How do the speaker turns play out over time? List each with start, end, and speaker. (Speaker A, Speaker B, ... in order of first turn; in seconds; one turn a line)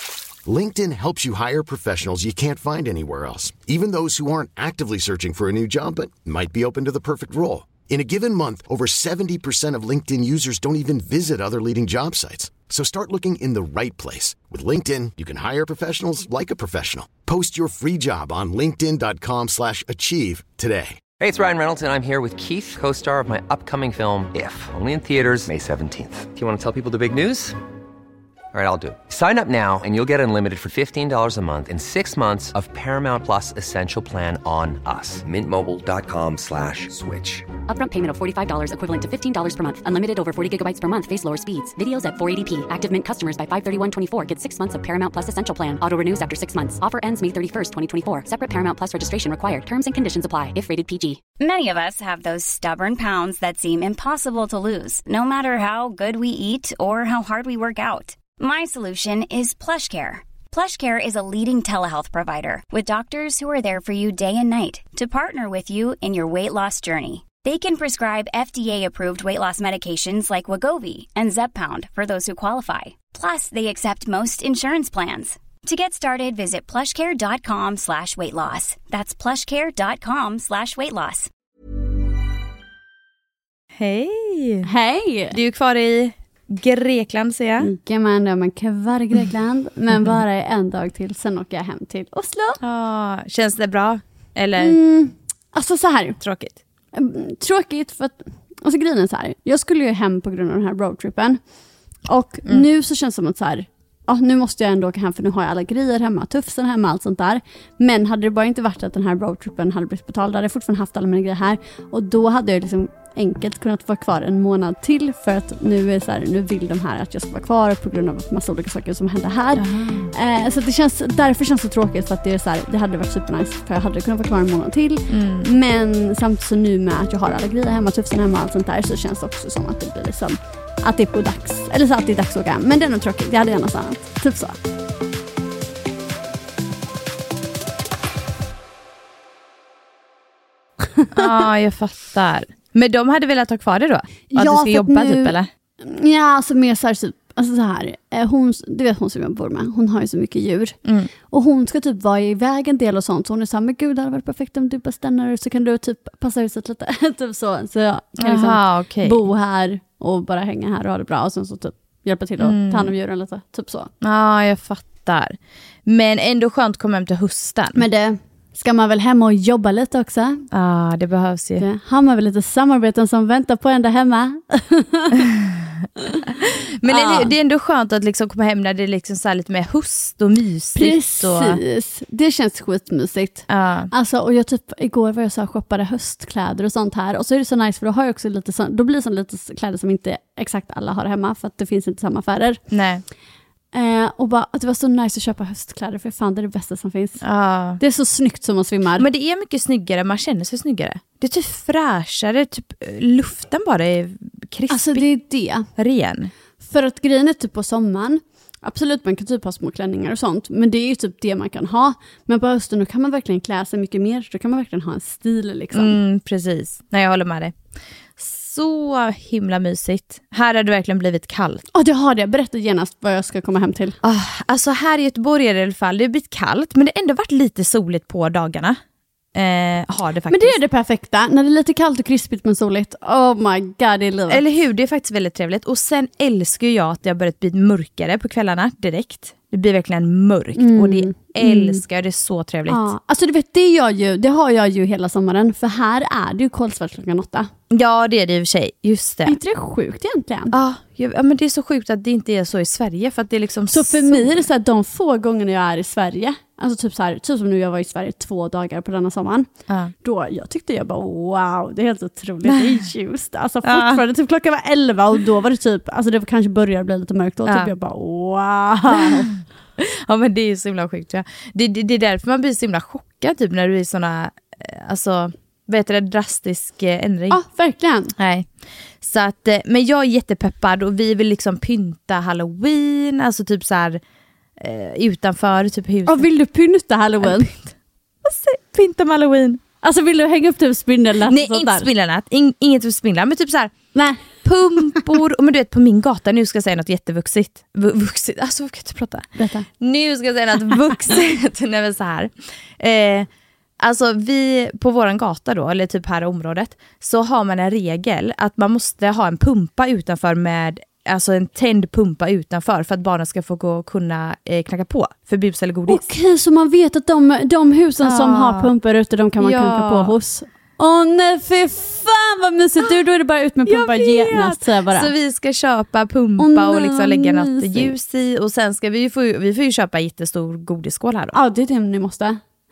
Speaker A: 0.5-21.0
Speaker B: 21.2-27.6
Speaker B: 28.5-37.5
Speaker C: 37.7-51.2
Speaker D: 51.4-81.3
Speaker E: 83.8-84.7
Speaker F: 84.7-85.4
Speaker E: 85.3-87.7
Speaker F: 87.6-92.6
Speaker E: 92.6-94.8
Speaker F: 94.6-96.2
Speaker E: 96.2-96.6
Speaker F: 96.9-101.4
Speaker F: 102.1-134.6
Speaker E: 119.6-120.1
Speaker E: 125.1-125.5
Speaker E: 141.1-145.5
Speaker F: 144.3-150.8
Speaker E: 150.8-151.1
Speaker F: 151.3-163.9
Speaker E: 158.2-159.2
Speaker E: 162.4-162.9
Speaker E: 164.0-167.8
Speaker F: 167.8-170.5
Speaker E: 170.5-171.6
Speaker F: 171.6-175.3
Speaker E: 176.4-181.6
Speaker F: 176.9-177.3
Speaker F: 180.8-192.6
Speaker E: 183.5-183.9
Speaker E: 192.7-193.0
Speaker F: 193.7-197.2
Speaker E: 197.2-197.8
Speaker F: 197.8-199.1
Speaker E: 199.0-205.1
Speaker F: 204.7-205.7
Speaker E: 205.8-206.3
Speaker F: 206.6-215.9
Speaker E: 215.8-217.6
Speaker E: 218.2-221.6
Speaker F: 221.7-224.0
Speaker E: 224.0-228.8
Speaker E: 229.3-230.6
Speaker F: 230.3-234.4
Speaker E: 234.3-242.9
Speaker F: 240.6-241.8
Speaker F: 242.7-247.5
Speaker E: 247.7-249.4
Speaker F: 249.3-250.5
Speaker E: 250.5-254.4
Speaker F: 253.7-259.5
Speaker F: 260.0-269.3
Speaker E: 263.6-264.0
Speaker E: 269.8-277.4
Speaker F: 277.3-278.1
Speaker E: 278.2-278.5
Speaker E: 279.0-284.0
Speaker E: 284.6-286.3
Speaker F: 286.1-287.5
Speaker E: 288.2-289.6
Speaker F: 289.8-291.9
Speaker E: 291.3-293.7
Speaker F: 293.9-294.2
Speaker E: 294.4-299.3
Speaker F: 299.4-299.7
Speaker E: 299.8-303.3
Speaker E: 303.8-316.1
Speaker F: 315.9-325.1
Speaker E: 318.0-318.7
Speaker E: 319.4-320.1
Speaker E: 323.7-331.4
Speaker F: 326.4-327.9
Speaker F: 331.3-332.4